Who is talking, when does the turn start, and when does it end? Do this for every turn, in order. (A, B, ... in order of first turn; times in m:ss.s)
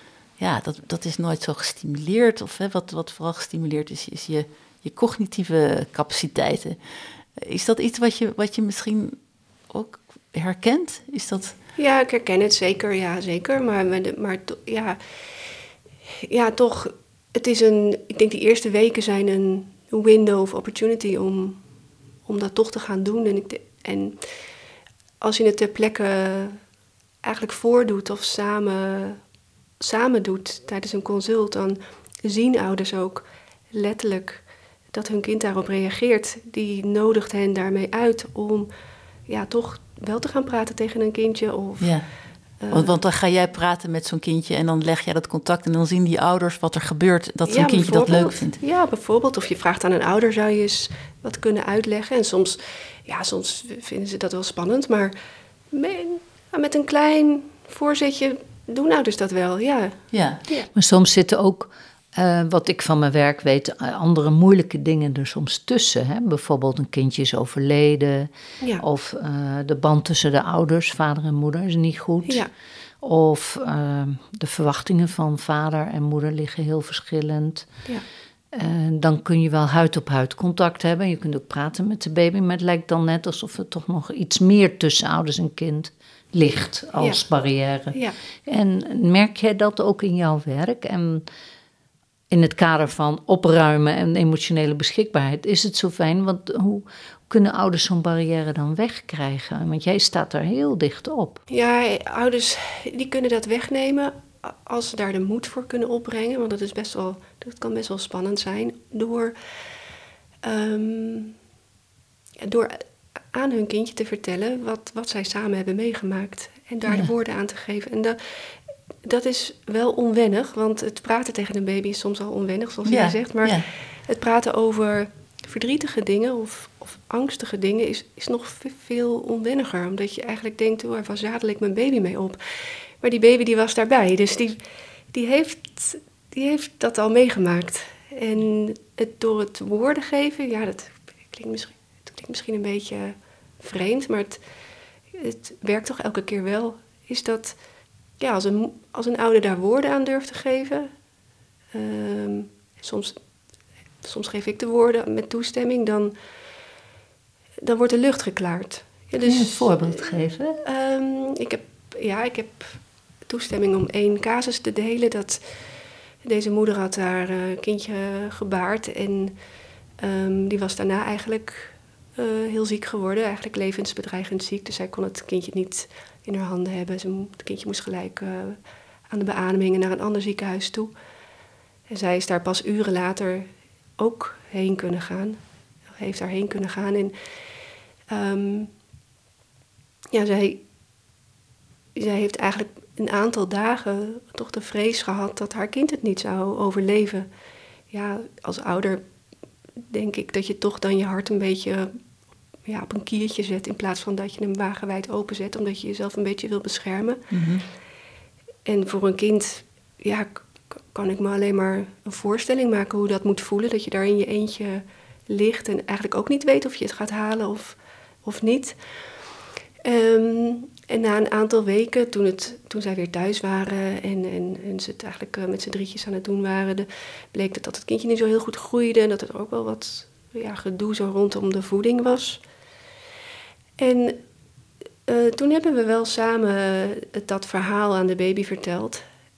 0:00.4-0:06.8 A
0:07.3-0:09.2 A
0:09.7-0:11.6 A
0:11.8-0:15.0 B
0:16.2-0:21.6 B
0:22.2-0:24.2 B
0:25.2-0:26.6 B
0:27.2-0:29.2 B
0:29.8-0:38.7 B
0:39.3-0:42.0 B
0:41.8-0:42.1 A
0:42.6-0:43.0 B
0:42.7-0:48.6 A
0:47.5-0:55.1 B
0:55.7-1:00.7 B
1:00.1-1:00.4 A
1:00.8-1:12.5 C
1:12.2-1:12.5 B
1:13.0-1:17.7 C
1:18.5-1:31.2 C
1:32.3-1:41.4 C
1:41.5-1:49.3 B
1:50.4-1:51.3 B
1:52.4-1:58.5 B
1:59.0-2:14.6 B
2:02.9-2:03.7 A
2:15.1-2:24.4 B
2:25.1-2:27.6 B
2:28.2-2:30.9 B
2:31.7-2:33.2 B
2:34.0-2:36.1 B
2:37.6-2:45.4 B
2:39.2-2:40.6 C
2:46.2-2:49.3 B
2:50.0-2:58.6 B
2:59.1-3:00.9 B
3:01.9-3:05.4 B
3:06.0-3:07.1 B
3:08.1-3:08.7 B
3:10.1-3:10.6 B
3:11.9-3:17.3 B
3:17.9-3:19.0 B
3:19.9-3:21.9 B
3:22.6-3:27.2 B
3:27.3-3:27.6 A
3:28.6-3:38.8 B
3:39.8-3:52.4 B
3:53.8-3:54.2 B
3:55.1-3:59.0 B